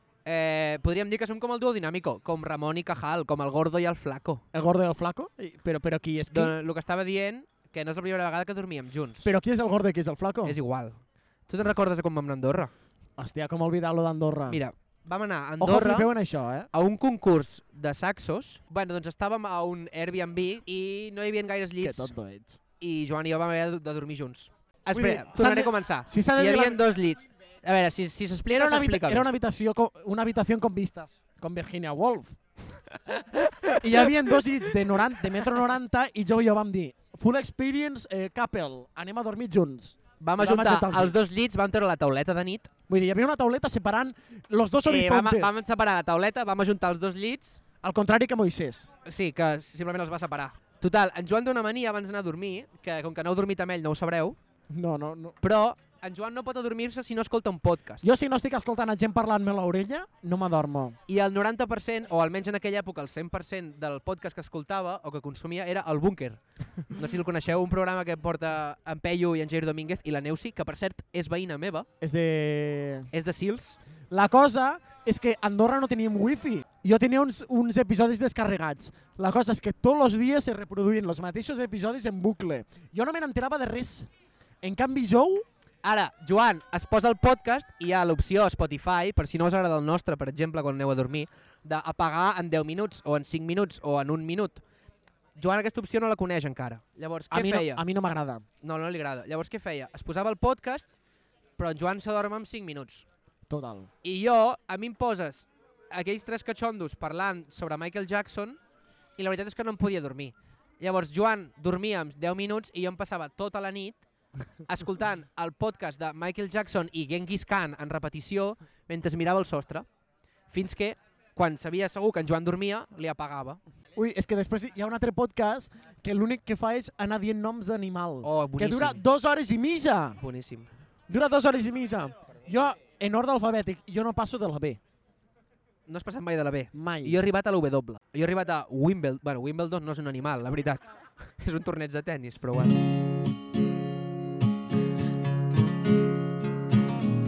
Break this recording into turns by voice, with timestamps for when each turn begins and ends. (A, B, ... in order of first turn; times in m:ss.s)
0:00.2-0:04.4 A
0:04.5-0:06.5 B
0:06.3-0:09.3 A
0:09.2-0:10.6 B
0:10.4-0:12.7 A
0:13.2-0:14.6 B
0:14.5-0:16.1 A
0:15.6-0:16.7 B
0:16.7-0:22.1 A
0:21.8-0:22.6 B
0:22.8-0:29.3 A
0:24.9-0:26.8 B
0:28.5-0:32.4 B
0:33.4-0:33.8 A
0:33.8-0:41.2 B
0:40.2-0:42.7 A
0:42.9-0:45.6 B
0:44.8-0:47.6 A
0:47.8-0:48.9 B
0:49.0-0:54.4 A
0:54.7-0:55.4 B
0:55.4-0:58.0 A
0:58.0-1:01.0 B
1:01.1-1:11.9 A
1:12.0-1:13.1 B
1:13.1-1:13.8 A
1:14.1-1:24.1 B
1:24.6-1:25.4 B
1:25.8-1:34.6 A
1:35.4-1:37.8 A
1:37.3-1:38.4 B
1:38.6-1:40.9 A
1:41.6-1:43.0 A
1:43.5-1:43.9 B
1:44.0-1:48.6 A
1:49.2-1:54.0 A
1:54.6-1:59.9 A
2:00.5-2:03.6 A
2:03.9-2:10.2 B
2:08.2-2:09.0 A
2:10.2-2:10.7 A
2:11.1-2:14.8 B
2:15.9-2:20.8 A
2:16.7-2:17.2 B
2:21.4-2:22.8 A